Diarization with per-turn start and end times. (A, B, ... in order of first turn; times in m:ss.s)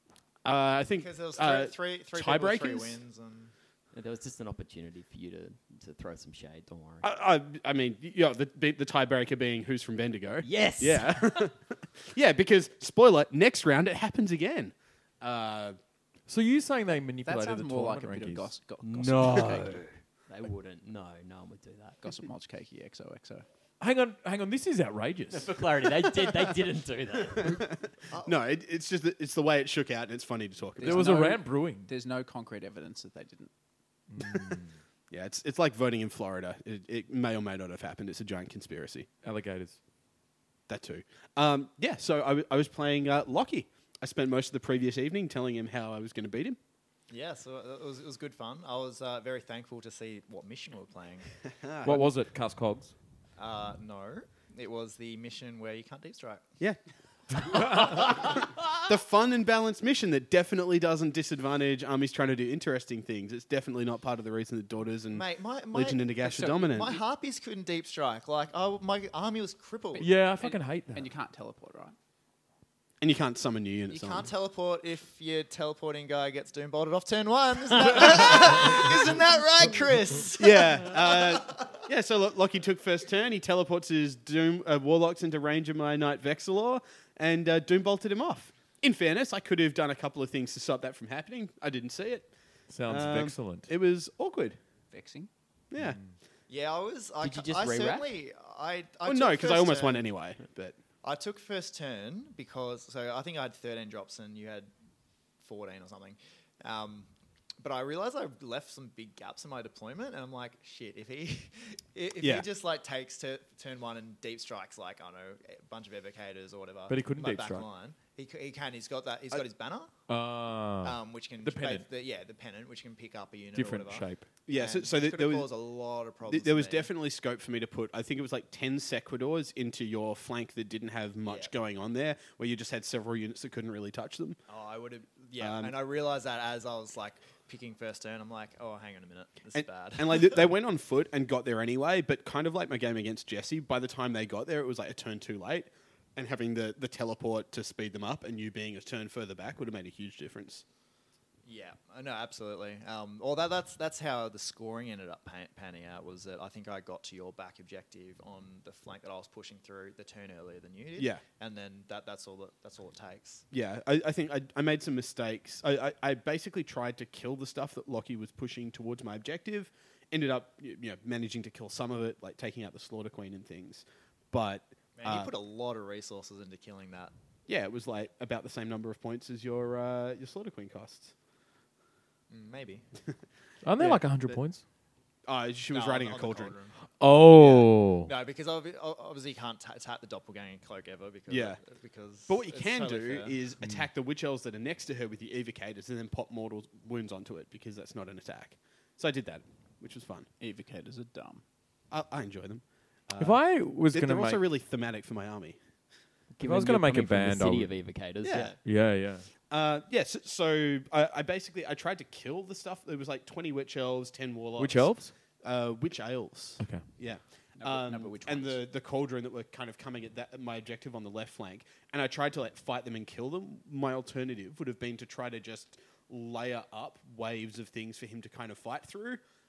0:00.4-0:03.0 A
0:01.0-0:03.5 B
0:03.9-0:07.0 C
0:07.0-0:15.8 A
0:10.4-0:11.4 C
0:16.3-0:18.5 D
0:17.2-0:19.8 E
0:18.8-0:22.0 C
0:22.0-0:23.5 E
0:23.8-0:25.6 D
0:25.3-0:27.6 C
0:27.3-0:31.2 A
0:28.1-0:28.4 B
0:30.8-0:33.5 E
0:30.8-0:31.9 D
0:34.1-0:34.8 D
0:35.1-0:39.1 A
0:39.2-0:39.8 D
0:40.7-0:46.6 A
0:47.1-0:51.3 B
0:51.6-0:52.1 A
0:51.8-0:52.9 D
0:53.4-0:56.4 B
0:57.3-1:07.0 A
1:05.1-1:10.1 B
1:06.2-1:07.0 E
1:09.9-1:12.0 E
1:10.0-1:11.0 D
1:13.0-1:14.3 A
1:13.9-1:21.8 B
1:20.4-1:32.3 A
1:32.7-1:33.7 D
1:32.9-1:34.6 A
1:34.9-1:35.3 E
1:35.7-1:36.0 A
1:35.8-1:36.2 D
1:36.5-1:40.1 B
1:37.2-1:38.1 C
1:39.0-1:40.8 A
1:41.0-1:44.7 B
1:45.4-1:59.9 B
1:56.9-1:57.7 D
2:00.1-2:01.9 D
2:00.8-2:06.9 B
2:03.5-2:04.3 D
2:04.5-2:05.5 A
2:06.3-2:14.4 A
2:11.2-2:11.5 B
2:14.5-2:20.4 B
2:15.4-2:15.7 A
2:19.6-2:30.6 A
2:31.4-2:43.4 B
2:41.0-2:41.2 A
2:43.5-2:55.3 A
2:55.0-2:57.1 B
2:57.5-3:01.1 A
3:02.3-3:02.8 B
3:03.6-3:04.6 D
3:03.8-3:04.4 A
3:05.3-3:06.6 A
3:05.7-3:13.4 B
3:07.0-3:08.1 D
3:11.3-3:11.6 A
3:12.3-3:20.3 A
3:13.6-3:13.9 D
3:20.4-3:21.4 E
3:21.9-3:25.6 A
3:23.2-3:24.4 D
3:26.3-3:28.6 C
3:26.4-3:28.0 D
3:28.2-3:28.6 A
3:28.6-3:29.3 D
3:29.5-3:49.2 A
3:34.6-3:35.1 D
3:36.6-3:36.8 D
3:37.6-3:38.6 E